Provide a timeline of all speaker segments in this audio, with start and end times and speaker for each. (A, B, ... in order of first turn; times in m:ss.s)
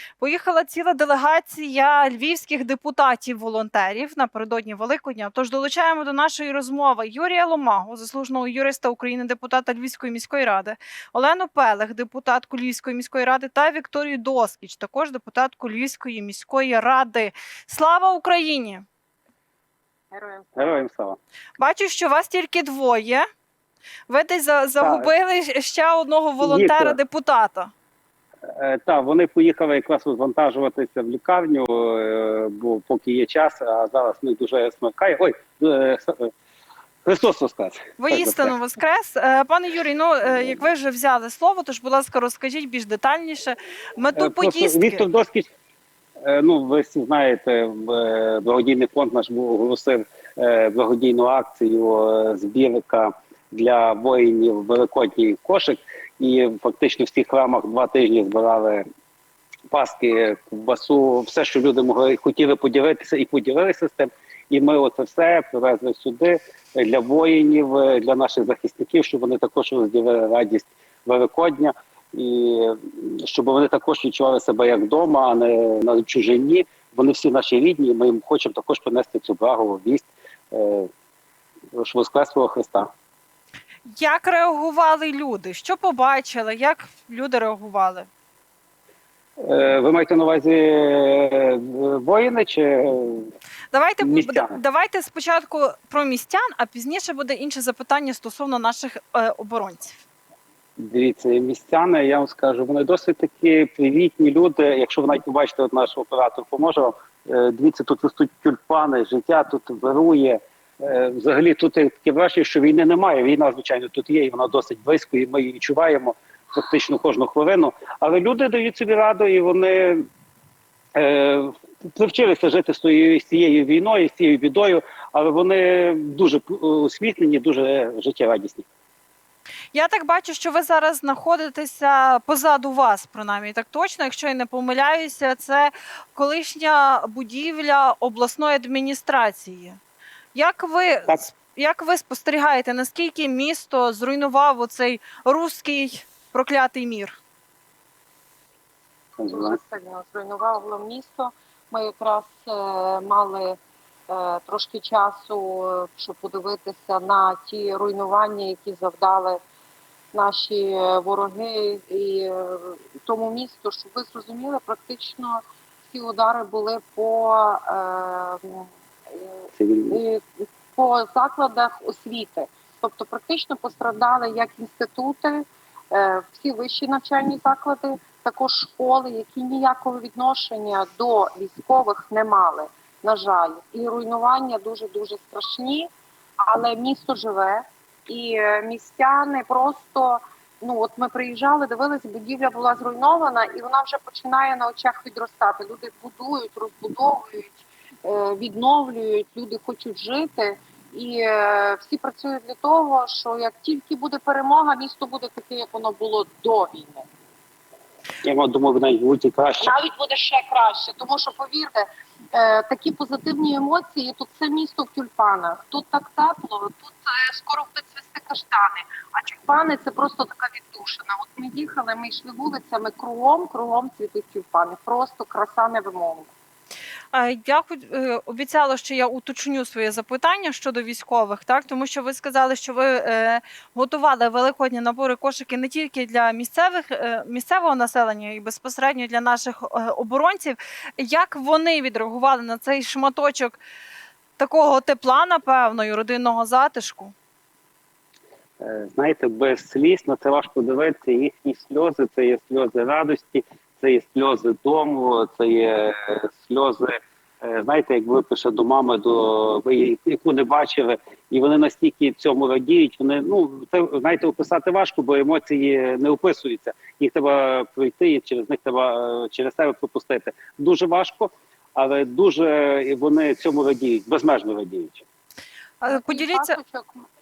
0:00.2-0:18.8 A
0:20.1-0:20.8 B
0:20.6-0:21.2 C
0:21.6-0:23.2 A
0:24.1-0:27.7 A
0:24.8-0:25.1 C
0:26.4-0:27.0 C
0:28.5-0:36.3 C
0:37.0-0:38.5 C
0:38.0-0:45.1 A
0:44.2-0:45.5 C
0:46.2-0:58.8 C
0:59.7-1:20.9 C
1:21.7-1:22.9 C
1:23.9-1:28.1 A
1:29.4-1:33.3 C
1:33.7-1:40.0 A
1:34.0-1:34.6 C
1:40.8-2:00.0 C
2:00.9-2:08.6 C
2:09.7-2:19.8 A
2:20.3-2:27.2 A
2:29.2-2:29.6 C
2:29.3-2:33.6 B
2:34.1-2:39.4 B
2:40.1-2:50.2 B
2:49.6-2:50.0 C
2:50.7-3:05.9 B
3:06.4-3:27.1 B
3:28.2-3:29.7 C
3:29.6-3:46.3 B
3:47.1-4:03.6 A
4:04.4-4:07.1 A
4:08.6-4:35.0 C
4:35.8-4:36.6 A
4:35.8-4:37.1 B